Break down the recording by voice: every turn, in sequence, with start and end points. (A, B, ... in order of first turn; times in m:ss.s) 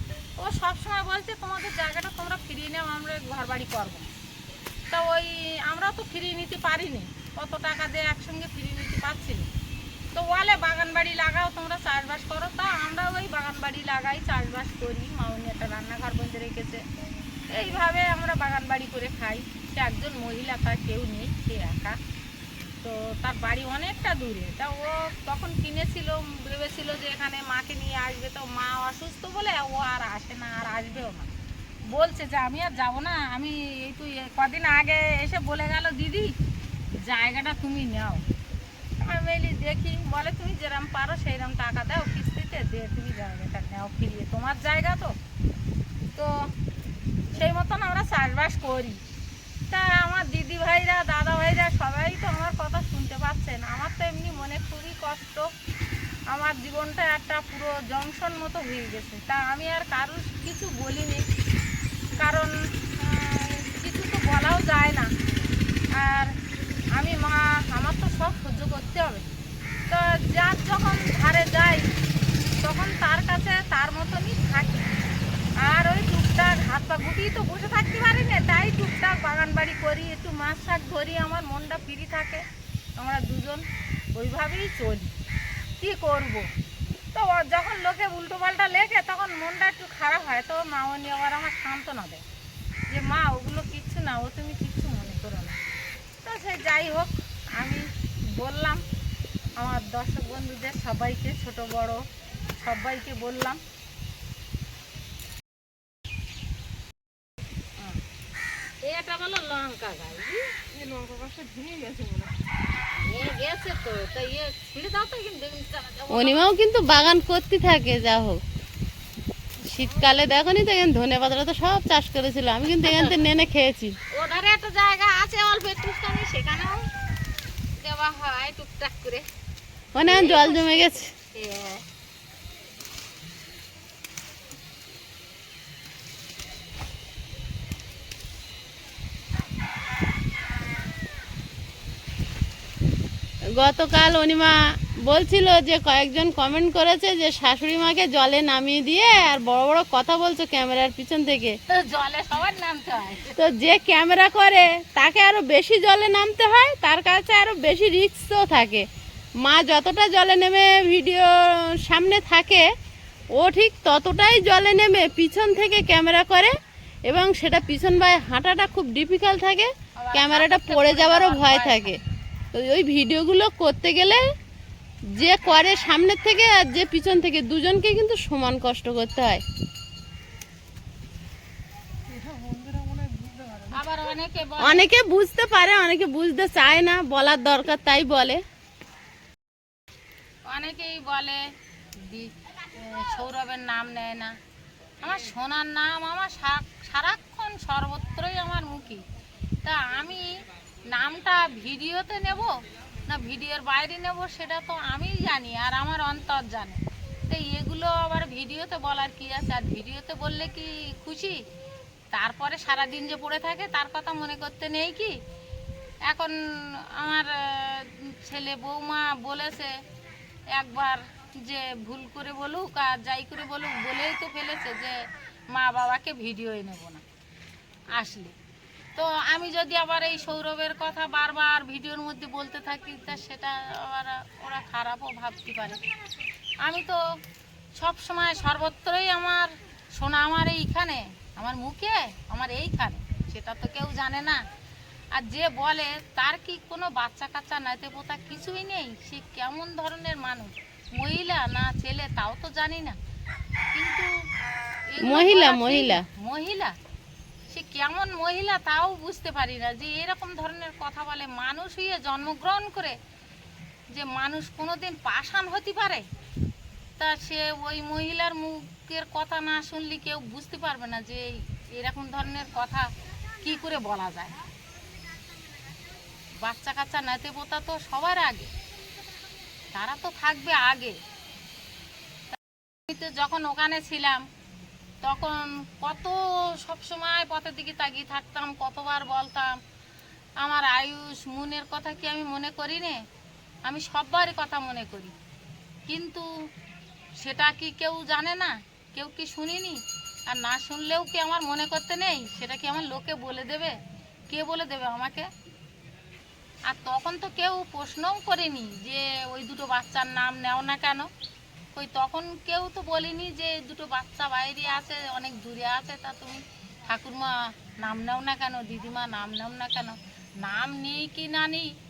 0:00.4-0:04.1 A
0:04.9-0:09.5 A
0:10.1-0:16.8 A
0:17.5-0:22.0 A
0:22.8-0:31.3 A
0:31.9-0:36.3 A
0:37.0-0:38.2 A
0:39.0-0:45.2 A
0:46.1-0:46.5 A
0:47.3-0:49.0 A
0:49.7-0:55.5 A
0:56.3-1:01.2 A
1:02.2-1:05.1 A
1:05.9-1:06.3 A
1:06.9-1:09.2 A
1:09.9-1:11.9 A
1:12.6-1:14.9 A
1:15.6-1:22.4 A
1:23.0-1:25.1 A
1:25.8-1:26.5 A
1:27.1-1:32.2 A
1:32.9-1:35.6 A
1:36.2-1:38.8 A
1:39.6-1:42.0 A
1:42.6-1:43.6 A
1:48.8-1:50.4 A
1:50.7-1:52.3 B
1:52.9-1:56.5 A
1:56.1-1:58.4 C
1:59.6-2:04.0 C
2:02.8-2:03.2 A
2:04.1-2:06.8 A
2:07.8-2:09.3 A
2:09.9-2:11.1 C
2:10.0-2:11.8 A
2:23.5-2:31.6 C
2:31.7-2:33.4 A
2:33.4-2:38.9 C
2:39.4-2:42.6 C
2:43.3-2:46.6 C
2:47.1-2:52.0 C
2:50.0-2:52.0 A
2:52.5-2:54.2 C
2:55.1-2:59.4 C
3:02.1-3:03.9 B
3:03.7-3:04.9 A
3:04.6-3:08.4 C
3:10.4-3:11.4 A
3:12.0-3:14.3 A
3:15.0-3:19.0 A
3:19.6-3:31.4 A
3:32.1-3:35.2 A
3:36.0-3:39.8 A
3:40.5-3:47.0 A
3:47.9-3:48.3 A
3:49.0-3:55.8 A
3:56.6-3:57.2 A
3:57.7-4:04.4 A
4:05.1-4:13.0 A
4:13.7-4:14.1 A
4:14.9-4:16.8 A
4:15.0-4:16.0 C
4:17.5-4:23.0 A
4:23.9-4:26.1 A
4:27.0-4:32.9 A
4:33.4-4:34.4 A
4:36.4-4:38.5 A
4:39.7-4:41.0 A
4:42.3-4:44.2 A
4:45.0-4:49.6 A
4:50.4-4:53.0 A
4:53.6-4:55.1 A
4:55.9-4:56.3 A
4:57.2-5:03.8 A
5:04.3-5:05.3 A
5:06.7-5:11.1 A
5:11.7-5:21.7 A